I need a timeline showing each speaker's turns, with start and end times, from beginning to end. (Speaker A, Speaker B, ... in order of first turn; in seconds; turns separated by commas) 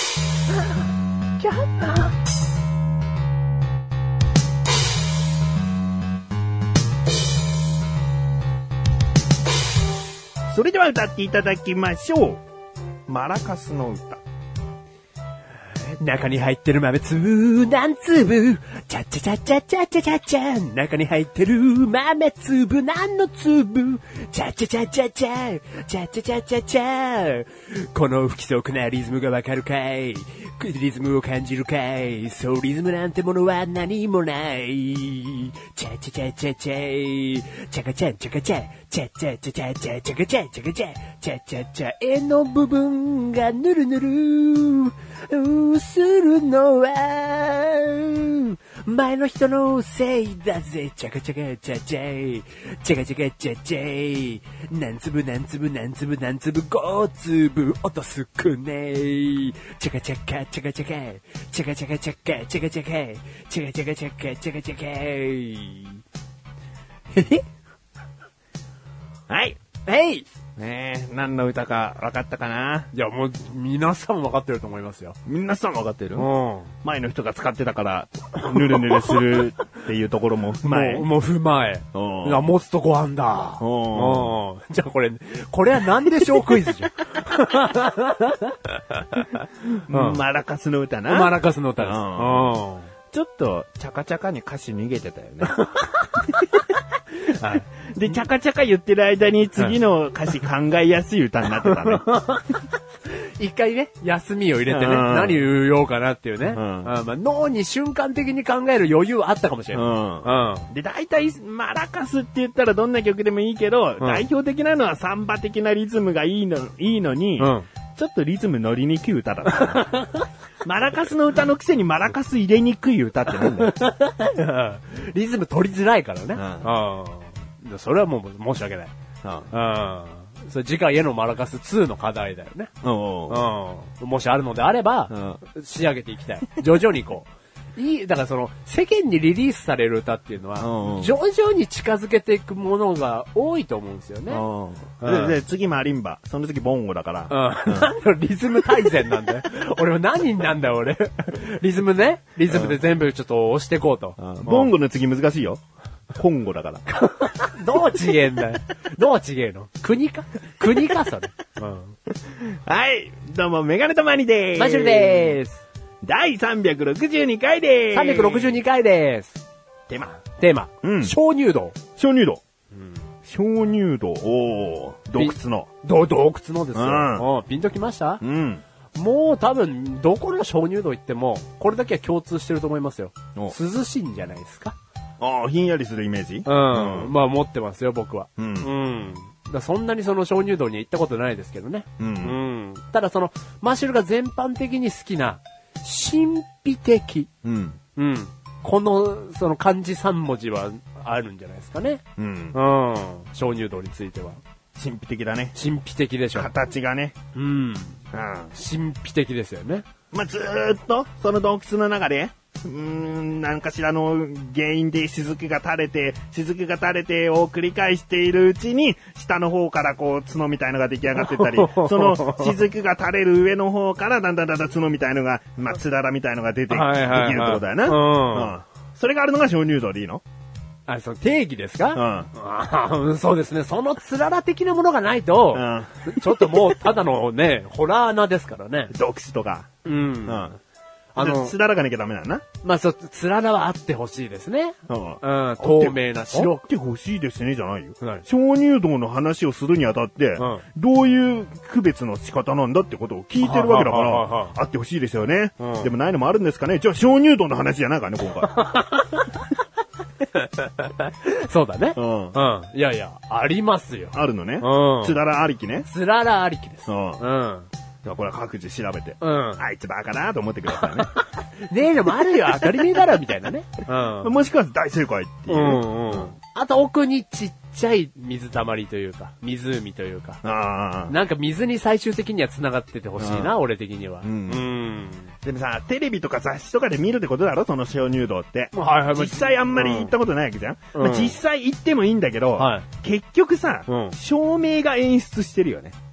Speaker A: 1.4-2.1, Speaker B: 10.5-12.4, Speaker B: 13.1-14.2, Speaker A: 15.8-66.0, Speaker A: 67.1-67.4, Speaker B: 69.3-69.6, Speaker A: 69.8-70.2, Speaker B: 70.6-72.9, Speaker A: 72.9-75.2, Speaker B: 75.2-76.3, Speaker A: 76.2-76.7, Speaker B: 76.8-81.1, Speaker A: 78.5-79.2, Speaker A: 80.6-89.3, Speaker B: 81.9-82.5, Speaker B: 83.6-84.4, Speaker B: 89.7-92.5, Speaker A: 89.9-90.2, Speaker A: 91.1-92.9, Speaker B: 93.1-95.6, Speaker A: 95.5-96.6, Speaker A: 97.3-97.7, Speaker B: 97.4-102.0, Speaker A: 101.5-110.7, Speaker B: 104.7-105.5, Speaker B: 106.5-106.9, Speaker B: 109.7-119.8, Speaker A: 114.0-114.2, Speaker A: 117.4-117.7, Speaker A: 119.5-120.2, Speaker B: 120.6-123.7, Speaker A: 123.3-128.9, Speaker B: 126.3-126.7, Speaker B: 129.2-129.5, Speaker A: 129.5-132.7, Speaker B: 132.8-133.5, Speaker A: 133.3-144.4, Speaker B: 135.1-135.4, Speaker B: 140.6-141.2, Speaker B: 144.3-147.9, Speaker A: 145.0-145.4, Speaker A: 147.3-154.7, Speaker B: 152.5-152.8, Speaker B: 154.2-155.6, Speaker B: 156.1-156.8, Speaker A: 156.9-161.9, Speaker B: 162.2-165.4, Speaker A: 164.5-165.6, Speaker B: 166.0-168.6, Speaker A: 167.9-169.4, Speaker B: 169.9-170.2, Speaker A: 170.2-171.8, Speaker B: 170.8-171.1, Speaker B: 172.0-172.4, Speaker B: 173.2-175.7, Speaker A: 175.2-178.2, Speaker B: 176.7-177.2, Speaker B: 178.2-178.6, Speaker A: 178.9-184.8, Speaker B: 185.2-187.1, Speaker A: 186.4-197.3, Speaker B: 188.4-188.7, Speaker B: 192.0-192.4, Speaker B: 197.4-197.8, Speaker A: 197.9-202.0, Speaker B: 202.2-202.6, Speaker A: 202.5-204.4, Speaker B: 204.8-205.5, Speaker A: 205.5-206.5, Speaker B: 206.3-207.1, Speaker A: 207.3-208.0, Speaker B: 208.1-208.5, Speaker A: 208.5-209.8, Speaker B: 210.1-230.2, Speaker A: 221.2-222.6, Speaker A: 226.7-228.6, Speaker A: 230.9-238.9, Speaker B: 231.9-232.3, Speaker B: 235.5-236.8, Speaker B: 238.9-239.7, Speaker A: 239.8-240.5, Speaker B: 240.2-240.6, Speaker A: 241.1-241.6, Speaker B: 241.2-242.4, Speaker A: 242.6-246.6, Speaker B: 244.9-258.5, Speaker A: 253.4-254.5, Speaker A: 255.6-255.9, Speaker A: 258.5-259.4, Speaker A: 260.3-265.2, Speaker B: 261.9-262.4, Speaker B: 264.1-265.9, Speaker A: 265.8-267.7, Speaker B: 266.9-267.2, Speaker B: 268.0-271.1, Speaker A: 269.2-269.6, Speaker A: 271.1-274.3, Speaker B: 274.2-276.3, Speaker A: 275.5-280.4, Speaker B: 280.4-281.1, Speaker A: 281.1-285.3, Speaker B: 283.2-283.6, Speaker B: 284.2-284.6, Speaker B: 285.4-295.9, Speaker A: 288.7-290.1, Speaker A: 290.9-291.4, Speaker A: 292.6-292.9, Speaker A: 293.9-294.1